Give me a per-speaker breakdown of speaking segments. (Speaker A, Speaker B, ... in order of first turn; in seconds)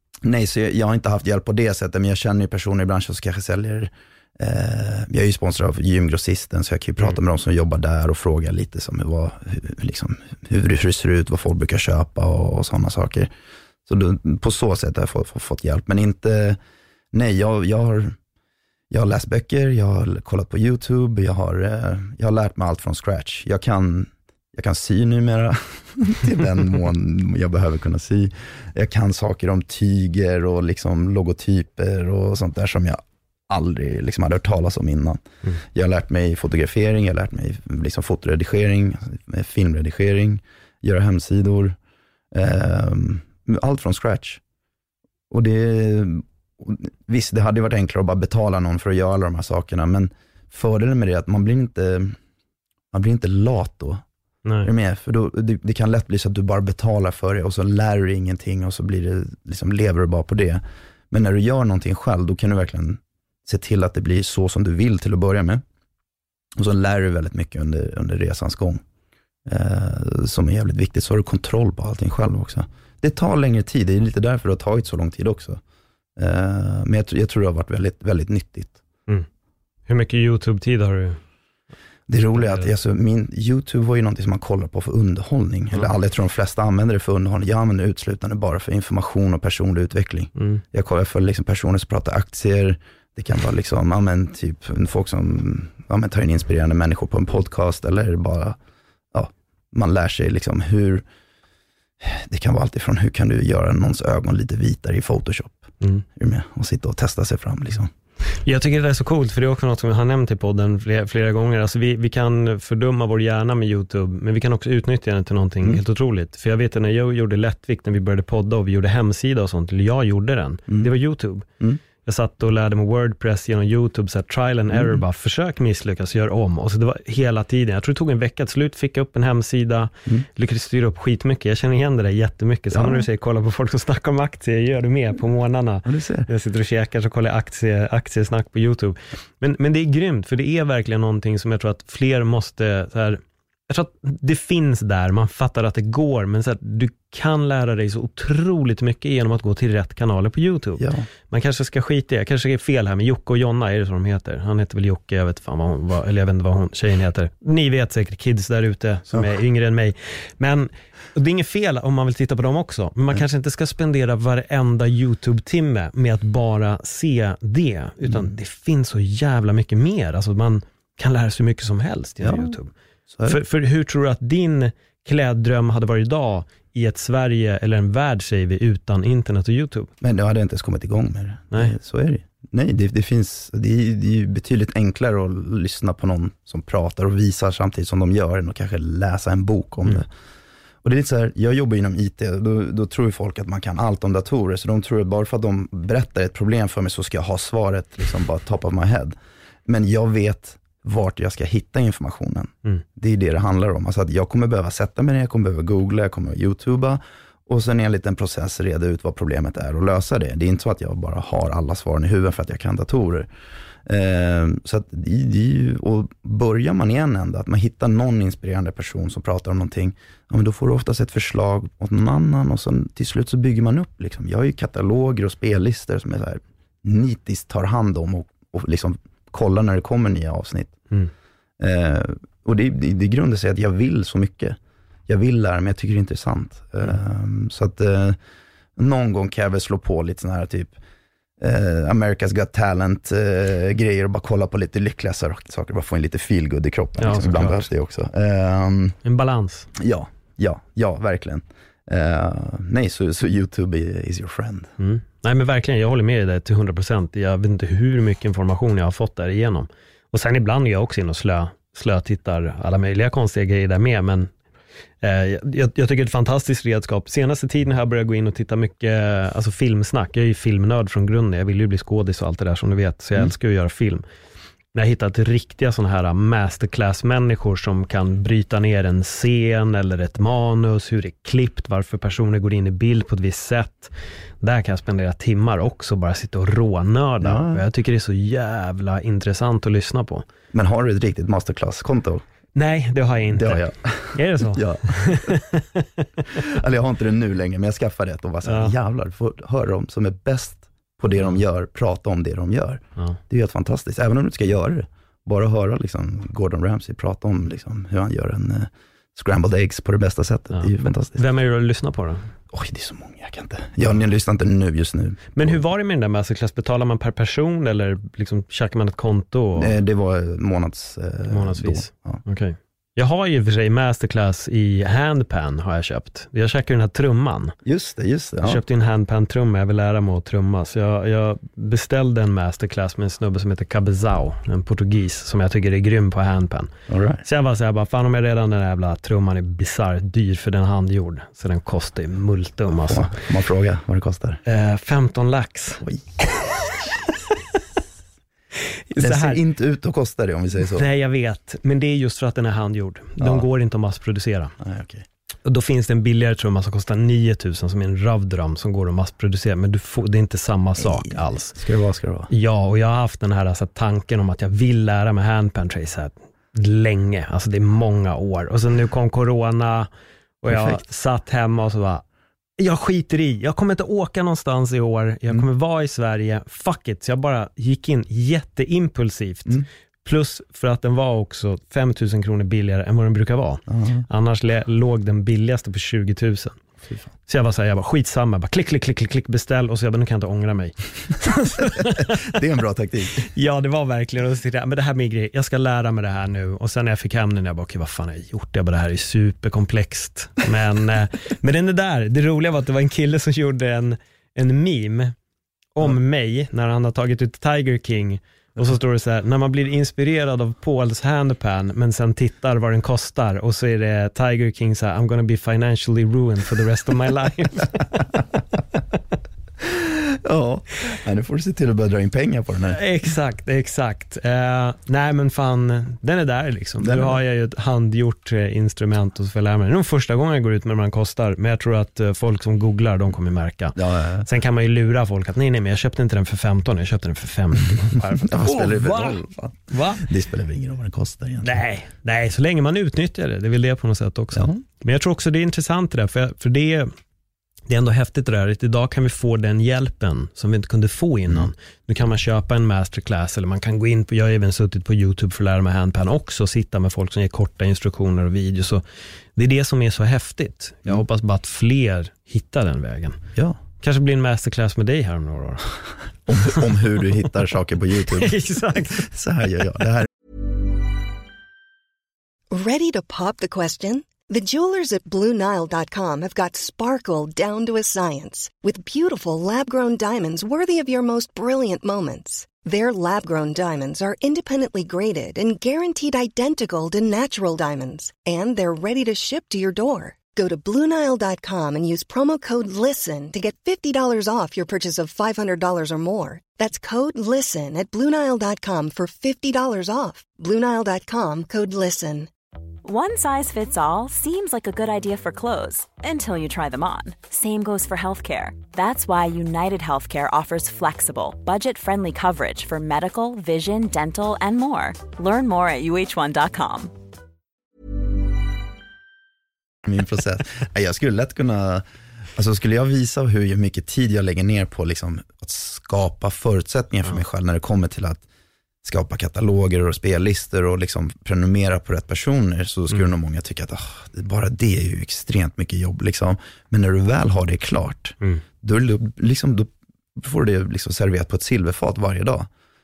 Speaker A: 0.2-13.3, 13.9-16.6, 17.1-18.2, 18.9-41.8, 42.3-44.4, 45.3-52.2, 52.9-54.0, 54.6-65.6, 66.6-68.8, 69.5-75.6, 76.2-78.8, 82.1-98.6, 99.1-101.0, 102.0-105.6, 106.2-107.9, 124.7-125.0, 132.7-133.1, 135.9-136.3, 150.8-151.1, 168.1-168.3, 172.2-172.6, 173.1-173.4, 180.0-190.1, 190.8-199.2, 199.7-213.3, 213.9-230.8, 231.6-238.2, 238.8-240.8, 241.4-249.0, 249.8-254.7, 287.2-287.6, 290.5-292.2, 293.3-295.4, 296.3-311.2, 312.5-315.6, 319.6-322.2, 327.6-328.6, 336.9-337.2, 342.9-344.4, 349.0-350.9, 353.2-353.4, 354.6-355.1, 360.8-362.3, 370.5-370.8, 383.7-384.1, 391.8-393.3, 419.6-422.8, 426.8-427.2, 433.8-434.3, 438.0-441.6, 444.3-444.6, 466.3-468.4, 468.9-470.1, 519.9-521.8, 522.4-528.2, 528.8-542.5
Speaker B: 54.5-54.7, 79.9-81.2, 82.3-82.7, 90.4-90.6, 108.4-121.5, 122.0-172.7, 173.3-179.9, 247.0-247.7, 249.0-249.7, 254.8-264.3, 265.0-274.0, 274.7-290.2, 292.6-296.2, 298.4-298.8, 310.5-312.3, 315.4-319.7, 321.3-327.6, 328.4-336.7, 337.2-343.1, 344.5-347.2, 348.9-349.4, 350.7-354.6, 355.4-361.6, 362.3-369.9, 370.4-372.0, 372.6-386.6, 387.3-392.4, 393.2-405.1, 405.8-418.2, 422.7-440.1, 441.4-446.9, 447.7-458.8, 459.4-463.2, 463.8-465.8, 468.1-469.1
Speaker C: 472.5-502.3
Speaker D: 502.8-516.9